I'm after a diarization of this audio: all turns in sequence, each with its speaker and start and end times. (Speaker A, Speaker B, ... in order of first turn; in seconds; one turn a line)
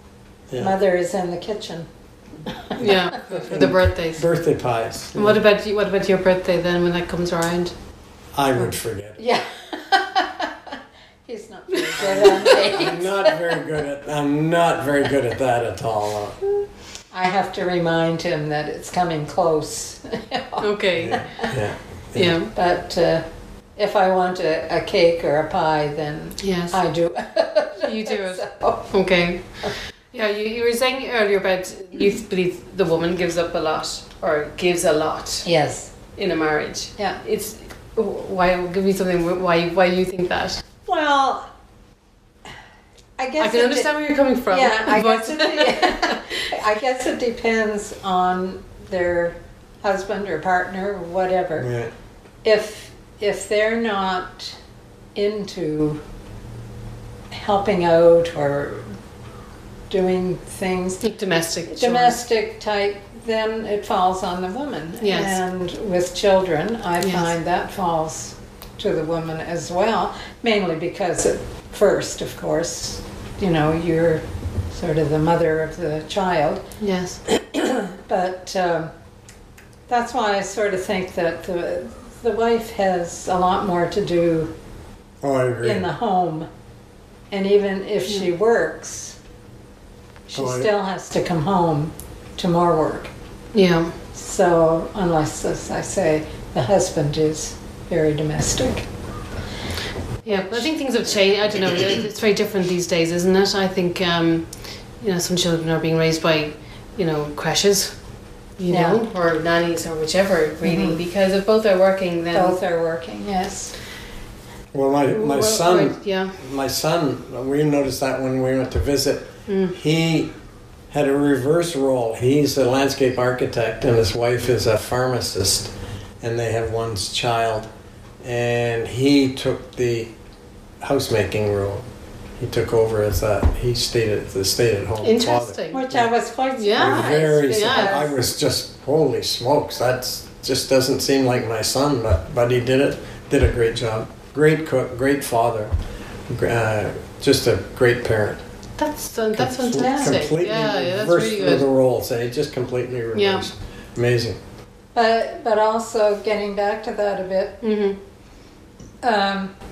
Speaker A: 0.5-0.7
Speaker B: 0.6-1.9
Speaker B: 2.5-2.8
Speaker C: 2.7-4.3
Speaker A: 2.8-5.4
Speaker C: 5.1-7.7
Speaker A: 8.3-9.2
Speaker B: 9.2-10.7
Speaker B: 11.2-13.5
Speaker C: 11.7-12.8
Speaker A: 12.0-16.4
Speaker B: 17.1-21.5
Speaker C: 20.6-21.3
Speaker A: 20.9-22.4
Speaker C: 22.1-22.5
Speaker B: 22.5-23.2
Speaker B: 23.8-28.9
Speaker C: 26.4-26.8
Speaker C: 27.8-35.5
Speaker B: 35.4-35.9
Speaker C: 36.1-40.6
Speaker B: 40.9-41.5
Speaker B: 43.2-43.9
Speaker C: 43.4-46.5
Speaker B: 44.5-51.7
Speaker A: 51.6-51.9
Speaker B: 52.4-54.5
Speaker B: 55.1-56.0
Speaker B: 57.3-58.9
Speaker B: 59.9-61.0
Speaker C: 61.0-62.2
Speaker B: 61.7-76.6
Speaker C: 65.0-65.4
Speaker C: 67.0-67.3
Speaker C: 76.8-77.2
Speaker B: 77.3-78.9
Speaker B: 79.9-84.5
Speaker A: 85.2-85.9
Speaker B: 85.6-86.5
Speaker B: 87.3-89.2
Speaker B: 90.3-93.1
Speaker A: 90.3-90.7
Speaker C: 93.5-93.9
Speaker B: 94.1-98.8
Speaker C: 100.2-107.9
Speaker B: 100.3-100.7
Speaker C: 108.6-112.6
Speaker B: 108.7-109.0
Speaker B: 110.6-111.0
Speaker B: 112.3-113.7
Speaker A: 114.7-120.3
Speaker C: 115.1-116.4
Speaker C: 119.5-119.8
Speaker A: 120.9-127.7
Speaker A: 128.2-130.1
Speaker A: 130.8-131.9
Speaker A: 132.4-136.1
Speaker C: 135.0-135.8
Speaker B: 135.7-138.2
Speaker C: 136.5-138.0
Speaker A: 136.7-145.7
Speaker A: 146.3-148.4
Speaker C: 148.8-151.6
Speaker A: 149.3-154.4
Speaker B: 149.8-150.2
Speaker C: 153.1-153.5
Speaker B: 154.9-157.6
Speaker C: 157.6-158.0
Speaker B: 159.0-159.5